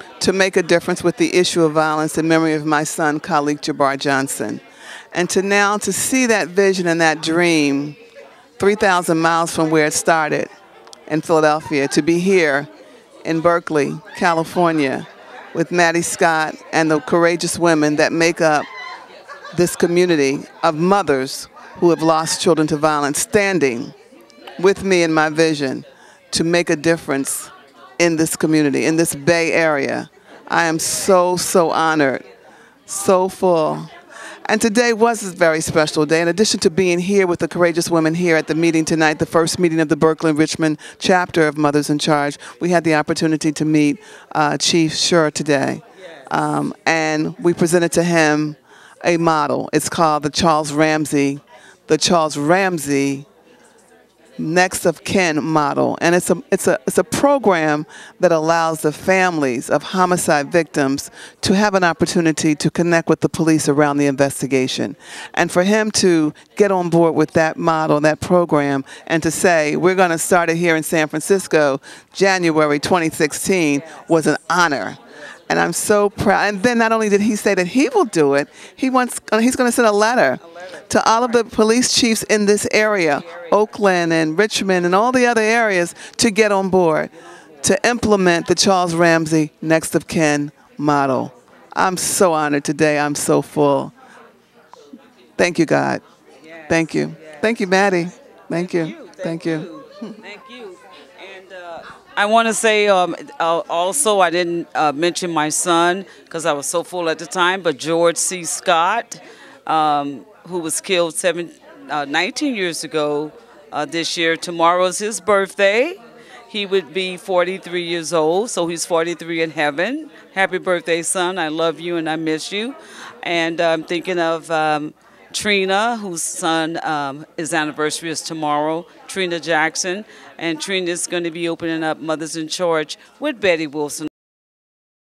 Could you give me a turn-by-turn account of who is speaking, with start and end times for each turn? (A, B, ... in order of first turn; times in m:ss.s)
0:00.2-0:04.6 A
0:05.1-0:08.0 A
0:08.6-0:10.5 A
0:11.1-0:12.7 A
0:13.2-0:18.7 A
0:19.5-0:23.9 A
0:24.6-0:32.2 A
0:32.9-0:33.9 A
0:34.4-0:53.3 A
0:54.4-1:33.9 A
1:23.2-1:23.6 B
1:35.4-1:36.0 A
1:36.4-1:37.9 B
1:36.7-1:39.7 A
1:38.5-2:14.1 B